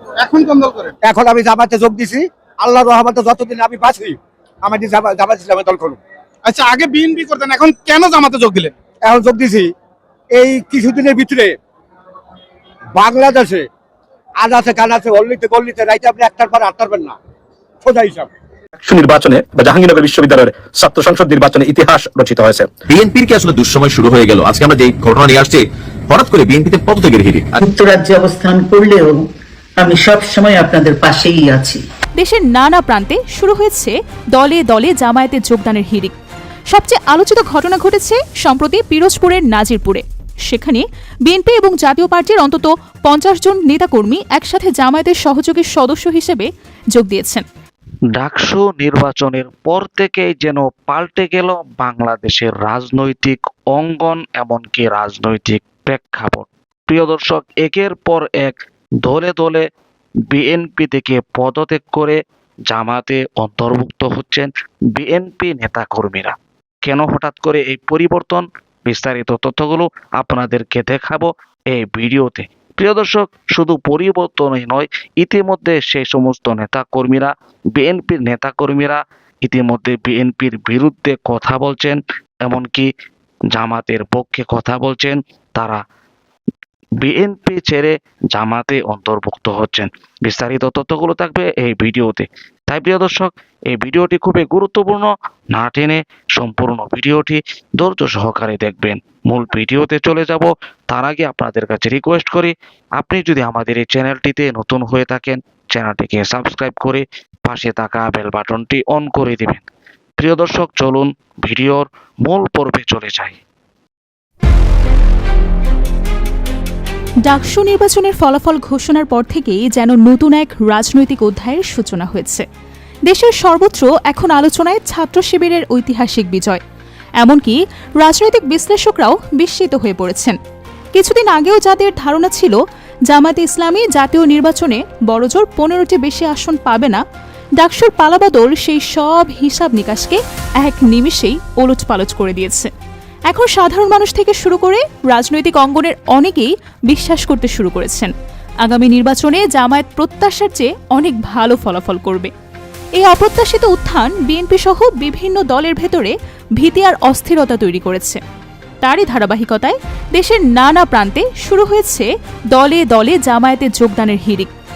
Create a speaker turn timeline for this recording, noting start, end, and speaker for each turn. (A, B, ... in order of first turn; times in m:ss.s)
0:00.2-0:00.9 A
0:01.0-0:06.0 B
0:06.4-0:08.7 A
0:09.0-0:09.7 B
0:10.3-0:11.5 B
0:12.9-0:13.6 B
0:14.4-0:17.1 B
0:17.8-0:18.3 B
0:18.8-0:22.7 C
0:22.9-0:27.6 D
0:27.6-0:29.2 E
0:29.8-0:31.8 E
0:32.2-0:36.1 F
0:36.7-0:47.4 F
0:48.2-0:59.6 G
1:00.3-1:02.2 G
1:02.7-1:22.9 G
1:23.5-1:25.8 G
1:27.0-1:49.6 G
1:50.2-1:53.4 G
1:57.2-2:02.4 F
2:03.1-2:06.6 F
2:07.2-2:10.4 F
2:10.9-2:17.0 F
2:17.6-2:22.7 F
2:23.3-2:28.1 F
2:28.6-2:32.3 F
2:32.9-2:38.2 F
2:38.8-2:44.5 F